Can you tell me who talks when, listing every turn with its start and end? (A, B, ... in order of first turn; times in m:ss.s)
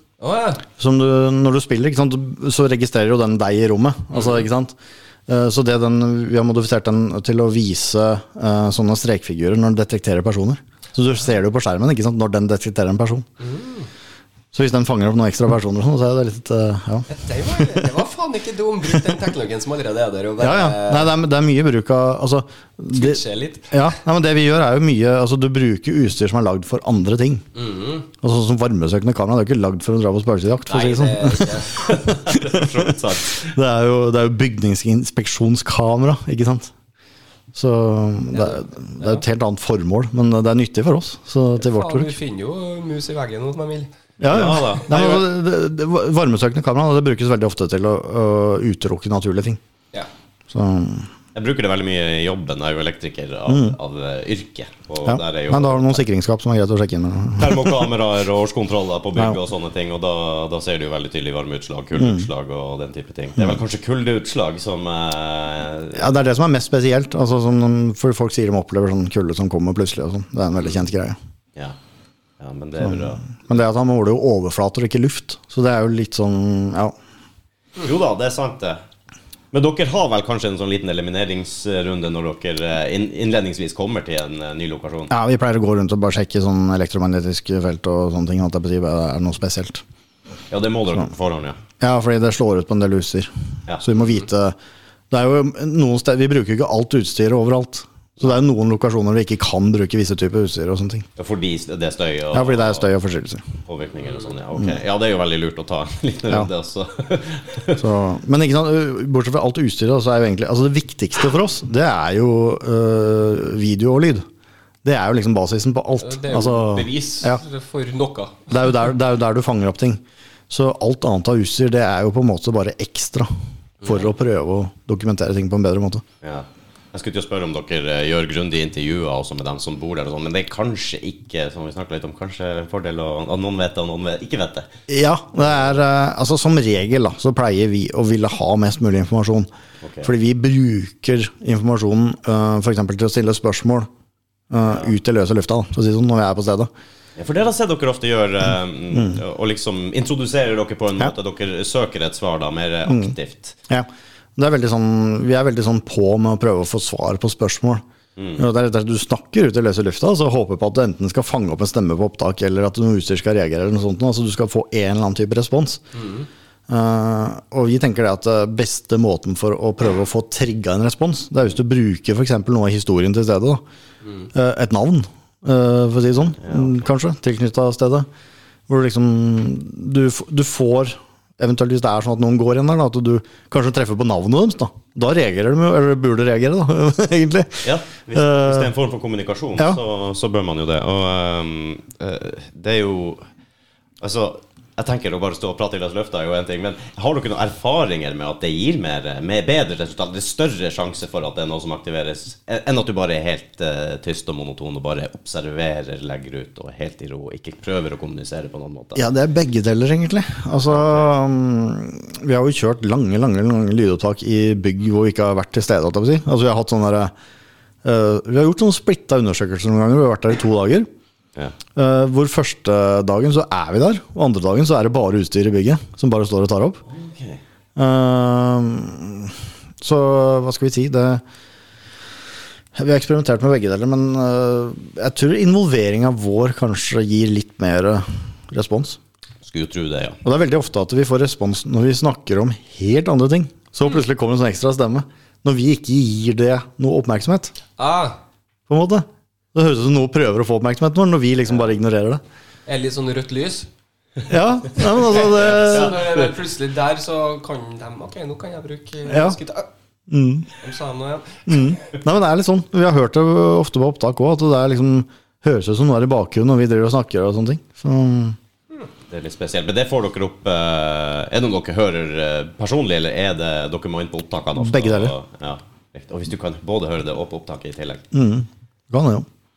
0:00.2-0:00.6 A
0:00.8-0:04.7 B
0:05.3-0:13.2 B
0:13.4-0:13.9 A
0:14.5-0:17.9 B
0:17.1-0:21.1 A
0:20.4-0:23.2 B
0:22.9-0:23.7 A
0:23.7-0:27.4 B
0:27.5-0:28.1 A
0:28.2-0:36.7 B
0:30.7-0:31.9 A
0:31.7-0:33.5 C
0:37.5-0:42.1 B
0:38.4-0:39.2 A
0:41.6-0:44.8 A
0:44.2-0:49.6 B
0:44.2-0:45.2 C
0:50.5-0:51.1 B
0:51.3-0:56.0 C
0:53.5-0:53.8 B
0:55.0-0:57.8 B
0:57.4-1:06.2 C
1:02.0-1:02.3 B
1:05.9-1:11.2 B
1:12.4-1:13.3 C
1:12.9-1:16.9 B
1:17.8-1:18.8 C
1:19.5-1:25.1 C
1:25.1-1:29.8 B
1:30.5-1:31.6 C
1:31.8-1:34.6 B
1:35.1-1:41.1 B
1:41.2-1:42.9 C
1:42.3-1:43.4 B
1:43.6-1:47.8 C
1:47.8-1:54.2 B
1:54.8-1:57.4 B
1:56.0-1:58.5 A
1:58.5-2:03.3 B
2:03.8-2:06.0 B
2:06.2-2:14.7 C
2:14.9-2:19.5 B
2:19.8-2:20.1 C
2:20.0-2:23.9 B
2:24.5-2:26.7 B
2:27.2-2:33.6 C
2:28.9-2:29.2 B
2:32.8-2:33.1 B
2:33.7-2:37.8 B
2:38.2-2:38.4 C
2:38.4-2:45.8 B
2:45.9-2:46.3 A
2:46.7-2:53.6 B
2:54.3-2:58.1 B
2:56.4-2:56.8 C
2:58.7-3:08.7 B
3:07.6-3:13.2 C
3:14.0-3:29.0 C
3:28.9-3:37.1 B
3:30.7-3:31.1 C
3:37.8-3:40.9 B
3:41.7-3:46.8 B
3:46.9-3:47.4 C
3:47.8-3:51.2 B
3:52.7-3:59.0 B
3:59.4-4:00.2 C
4:00.2-4:07.5 B
4:07.8-4:08.2 A
4:08.7-4:12.2 B
4:12.7-4:13.7 A
4:14.3-4:16.3 B
4:14.8-4:19.7 A
4:19.1-4:19.4 B
4:20.1-4:20.5 B
4:20.6-4:21.8 A
4:21.5-4:28.4 B
4:29.1-4:38.0 C
4:34.6-4:35.1 B
4:38.1-4:39.3 B